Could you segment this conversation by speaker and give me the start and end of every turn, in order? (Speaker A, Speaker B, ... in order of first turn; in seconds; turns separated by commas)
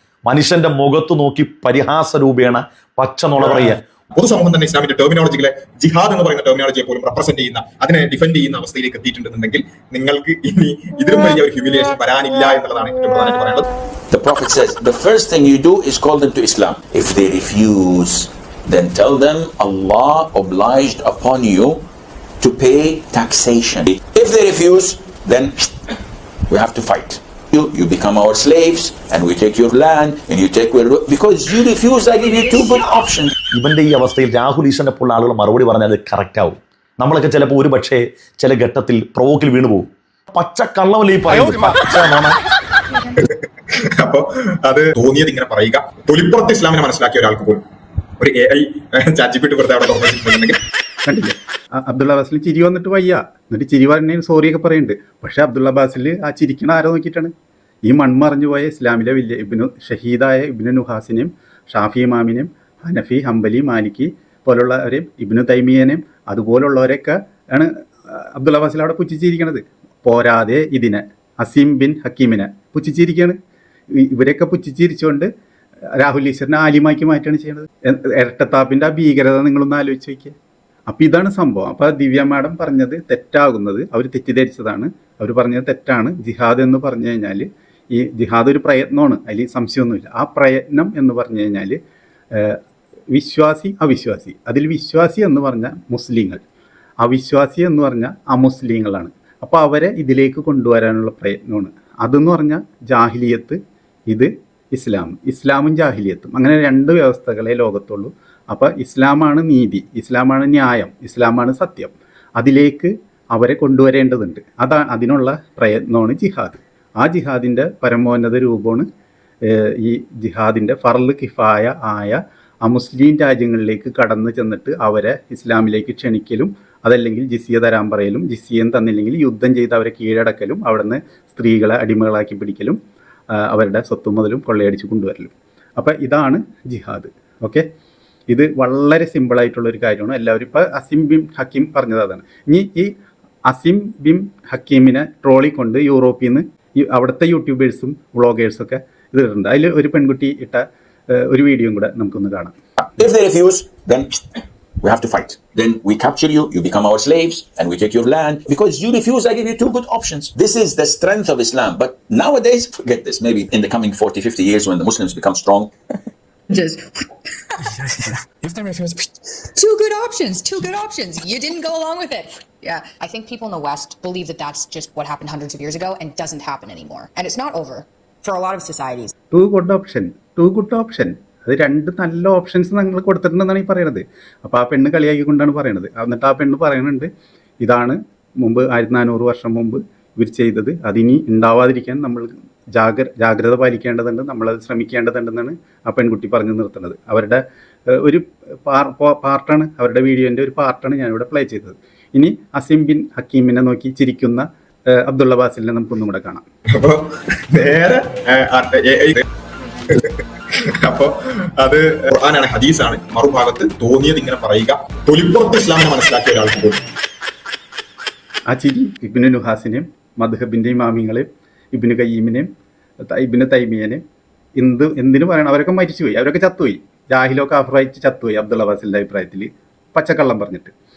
Speaker A: 0.3-3.8, Speaker B: 3.4-13.7, Speaker C: 14.1-21.8, Speaker C: 22.4-25.7, Speaker C: 26.5-33.4, Speaker A: 33.5-42.4, Speaker B: 43.1-47.6, Speaker B: 48.2-50.6, Speaker D: 51.1-57.3, Speaker D: 57.9-73.4, Speaker D: 73.9-75.3, Speaker D: 76.0-80.3, Speaker D: 80.9-91.8, Speaker D: 92.3-92.6, Speaker D: 93.1-96.4, Speaker D: 97.0-118.9, Speaker D: 119.4-132.8, Speaker D: 133.3-137.7, Speaker D: 138.3-142.9, Speaker D: 143.5-152.6, Speaker C: 152.8-165.7, Speaker E: 166.5-179.1, Speaker D: 179.3-187.1, Speaker D: 187.6-206.4, Speaker B: 206.7-209.2, Speaker B: 209.9-216.8, Speaker D: 218.5-222.5, Speaker D: 223.1-224.0, Speaker D: 224.6-230.7